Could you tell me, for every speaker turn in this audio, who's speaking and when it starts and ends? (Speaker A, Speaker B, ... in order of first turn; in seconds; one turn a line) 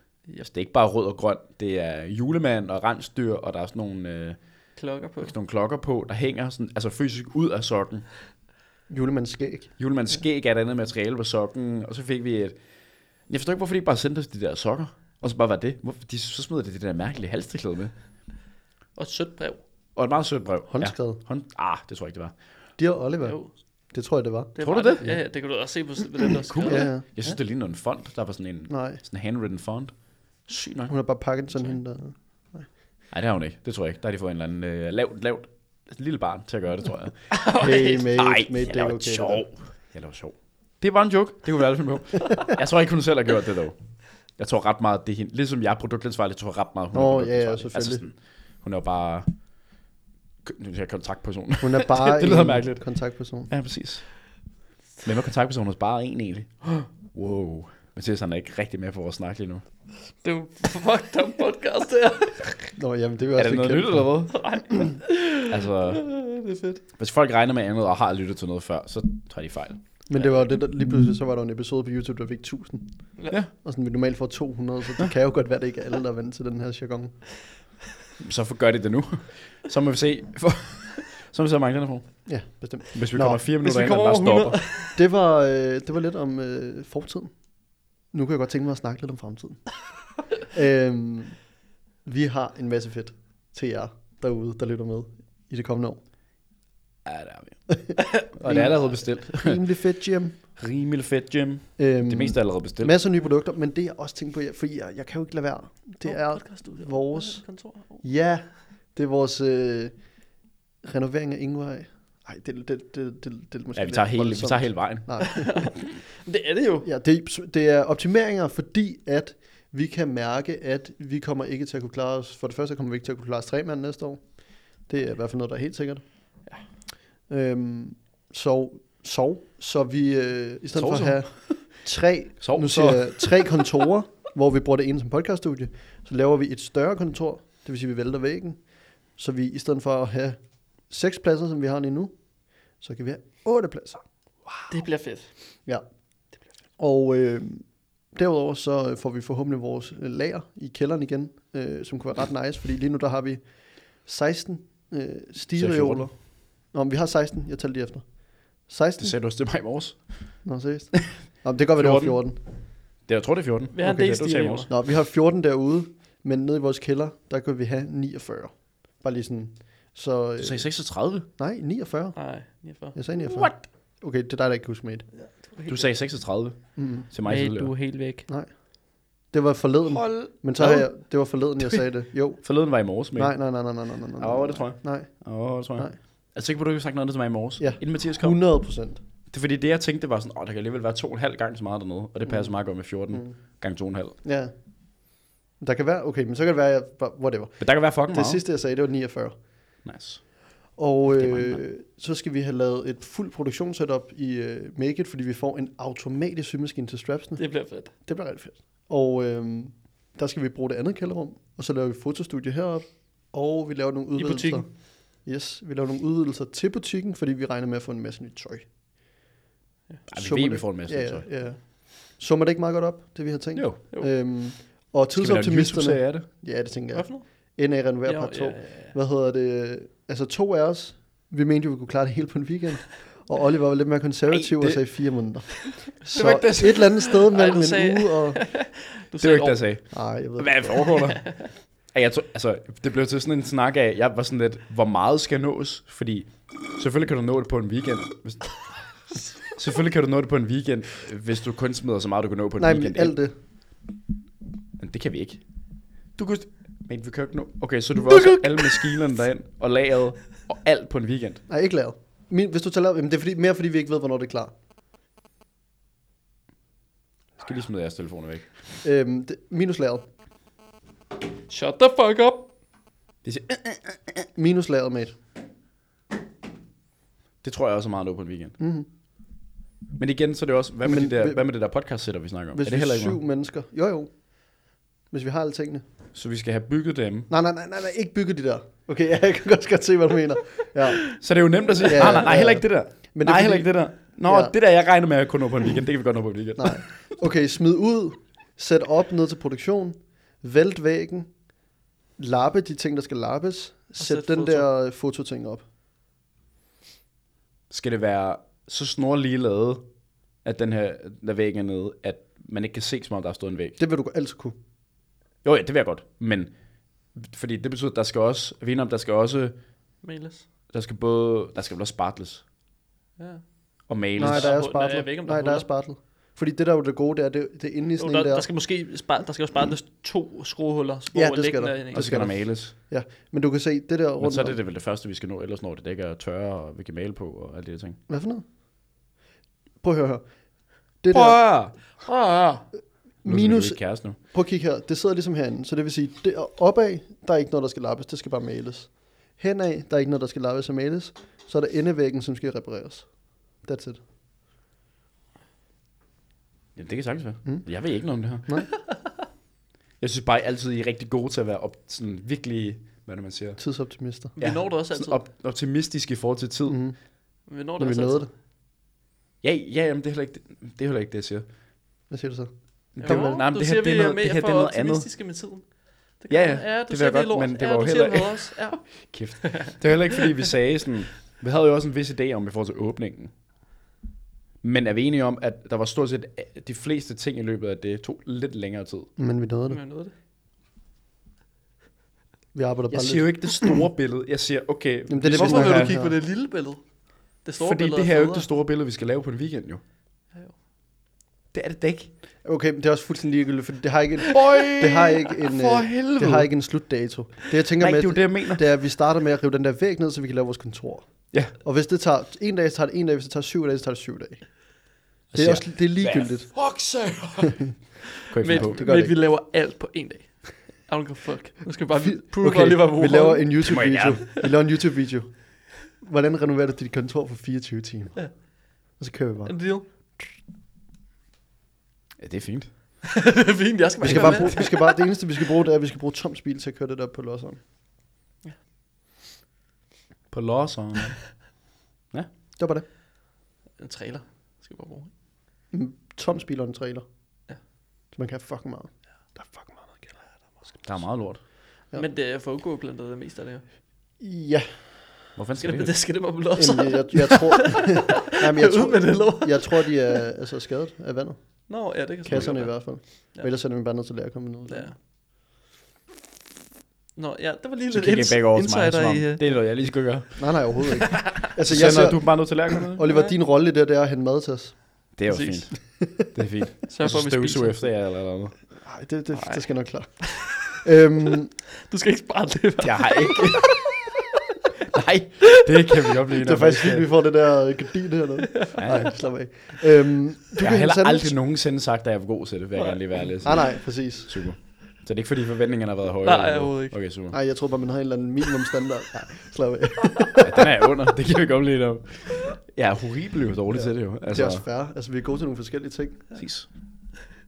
Speaker A: 0.4-4.4
Speaker B: 4.8-5.3
Speaker A: 5.2-8.1
Speaker C: 8.9-9.7
Speaker A: 9.8-12.6
Speaker A: 13.3-17.9
Speaker B: 19.0-19.6
Speaker A: 20.0-22.4
Speaker C: 20.7-21.2
Speaker C: 22.8-23.4
Speaker B: 23.2-23.5
Speaker C: 23.9-25.2
Speaker B: 24.6-27.2
Speaker A: 24.6-25.2
Speaker A: 26.5-30.9
Speaker C: 26.6-27.1
Speaker C: 28.7-29.0
Speaker C: 30.9-32.7
Speaker A: 33.1-37.3
Speaker B: 37.3-38.1
Speaker C: 37.5-39.5
Speaker A: 38.1-49.3
Speaker C: 46.9-48.0
Speaker A: 50.4-52.9
Speaker C: 51.6-53.5
Speaker A: 53.5-54.2
Speaker A: 55.0-59.6
Speaker B: 60.2-62.6
Speaker C: 62.8-64.1
Speaker A: 63.4-64.4
Speaker B: 64.3-66.8
Speaker A: 65.4-66.1
Speaker A: 67.0-69.8
Speaker C: 70.1-77.2
Speaker A: 78.2-82.2
Speaker C: 82.3-83.4
Speaker A: 82.9-84.6
Speaker B: 83.6-85.0
Speaker C: 84.9-87.3
Speaker C: 88.1-89.8
Speaker C: 90.4-91.5
Speaker C: 92.0-96.0
Speaker A: 97.0-99.6
Speaker C: 97.7-100.4
Speaker A: 100.6-103.0
Speaker C: 101.8-107.4
Speaker B: 106.0-108.0
Speaker C: 108.0-110.2
Speaker C: 110.8-115.7
Speaker A: 113.7-115.7
Speaker B: 115.2-116.9
Speaker C: 116.8-126.0
Speaker C: 127.3-142.1
Speaker A: 130.8-131.7
Speaker A: 132.4-133.3
Speaker C: 142.7-144.7
Speaker B: 144.7-145.3
Speaker C: 146.8-159.2
Speaker A: 155.5-156.1
Speaker A: 159.0-160.5
Speaker C: 160.4-162.4
Speaker A: 161.8-162.4
Speaker A: 163.0-164.7
Speaker B: 163.7-164.7
Speaker C: 163.8-172.2
Speaker A: 170.4-171.3
Speaker B: 172.2-173.0
Speaker C: 172.9-175.1
Speaker A: 173.2-173.6
Speaker B: 175.2-175.9
Speaker A: 175.7-177.7
Speaker C: 176.8-177.1
Speaker B: 177.2-178.3
Speaker C: 178.3-186.0
Speaker A: 179.9-180.9
Speaker A: 181.6-181.9
Speaker A: 182.4-183.7
Speaker A: 184.2-188.4
Speaker C: 187.6-189.0
Speaker A: 189.3-194.2
Speaker C: 192.2-193.6
Speaker C: 194.2-199.4
Speaker A: 197.6-198.4
Speaker A: 199.8-200.4
Speaker C: 200.8-218.7
Speaker A: 201.1-201.7
Speaker B: 207.4-207.9
Speaker B: 214.2-214.7
Speaker A: 220.1-221.3
Speaker C: 220.1-238.4
Speaker A: 223.5-223.8
Speaker A: 225.2-226.3
Speaker B: 226.9-228.9
Speaker A: 234.3-235.1
Speaker A: 236.1-236.9
Speaker B: 236.2-239.7
Speaker A: 239.2-248.7
Speaker C: 239.9-240.9
Speaker B: 241.0-241.5
Speaker A: 249.5-253.2
Speaker C: 252.6-253.3
Speaker A: 254.8-255.4
Speaker A: 256.2-261.4
Speaker C: 261.5-264.5
Speaker A: 267.4-268.6
Speaker C: 268.8-270.0
Speaker B: 271.5-272.5
Speaker A: 273.2-274.1
Speaker C: 274.4-275.2
Speaker A: 277.4-278.6
Speaker C: 278.6-278.9
Speaker A: 280.0-283.2
Speaker C: 280.9-281.4
Speaker C: 282.5-285.8
Speaker A: 286.1-287.3
Speaker C: 287.3-291.3
Speaker A: 291.1-297.2
Speaker C: 291.8-294.5
Speaker C: 296.6-301.5
Speaker C: 302.2-305.6
Speaker B: 304.0-304.7
Speaker A: 307.7-309.9
Speaker A: 310.4-313.8
Speaker C: 313.8-314.6
Speaker A: 315.4-316.5
Speaker A: 317.1-319.6
Speaker B: 320.0-320.5
Speaker A: 320.7-322.4
Speaker B: 323.2-323.5
Speaker A: 323.9-324.6
Speaker B: 324.1-325.7
Speaker C: 324.2-328.5
Speaker B: 328.0-332.2
Speaker C: 331.1-334.6
Speaker A: 331.9-332.7
Speaker A: 334.2-338.0
Speaker C: 338.1-338.4
Speaker C: 339.8-341.8
Speaker A: 341.1-342.0
Speaker B: 342.1-342.7
Speaker C: 343.2-354.0
Speaker A: 343.2-344.2
Speaker A: 356.8-358.7
Speaker A: 360.0-363.6
Speaker C: 363.6-364.4
Speaker B: 364.4-365.2
Speaker A: 364.4-366.8
Speaker C: 366.7-368.3
Speaker B: 367.5-368.3
Speaker A: 369.4-371.5
Speaker C: 372.1-373.4
Speaker A: 372.9-375.1
Speaker B: 373.0-379.8
Speaker A: 376.3-383.3
Speaker A: 384.6-389.1
Speaker C: 389.2-389.8
Speaker B: 389.7-390.1
Speaker C: 392.5-393.8
Speaker A: 392.9-396.0
Speaker C: 395.1-396.1
Speaker B: 395.3-398.5
Speaker A: 397.6-399.8
Speaker A: 401.5-402.1
Speaker C: 402.4-414.8
Speaker A: 404.3-406.5
Speaker A: 407.8-408.7
Speaker C: 415.3-416.8
Speaker A: 415.3-417.5
Speaker B: 418.2-423.8
Speaker A: 418.3-418.9
Speaker C: 418.5-419.2
Speaker C: 422.0-429.7
Speaker A: 423.6-424.4
Speaker B: 429.5-429.9
Speaker A: 432.2-432.7
Speaker B: 433.1-435.0
Speaker C: 434.0-437.6
Speaker A: 440.3-441.4
Speaker C: 442.6-442.9
Speaker B: 443.8-445.1
Speaker C: 445.7-447.1
Speaker C: 448.1-450.8
Speaker A: 450.8-451.4
Speaker B: 451.9-453.6
Speaker C: 454.2-455.1
Speaker A: 455.4-456.1
Speaker B: 455.6-460.2
Speaker C: 456.6-464.9
Speaker B: 461.7-463.5
Speaker A: 462.2-462.6
Speaker B: 464.7-464.9
Speaker B: 467.2-469.5
Speaker A: 467.9-470.9
Speaker C: 470.4-474.8
Speaker A: 471.6-473.0
Speaker B: 473.1-473.3
Speaker A: 475.1-478.6
Speaker B: 475.3-476.0
Speaker B: 476.9-477.8
Speaker C: 478.8-481.5
Speaker B: 479.3-480.5
Speaker B: 481.9-484.1
Speaker A: 482.8-484.0
Speaker A: 484.9-487.1
Speaker C: 486.4-491.4
Speaker A: 488.8-489.2
Speaker A: 490.6-497.4
Speaker B: 492.8-493.6
Speaker C: 493.4-494.4
Speaker B: 496.2-497.0
Speaker C: 497.3-500.6
Speaker A: 500.4-504.6
Speaker C: 503.8-506.4
Speaker A: 506.3-506.7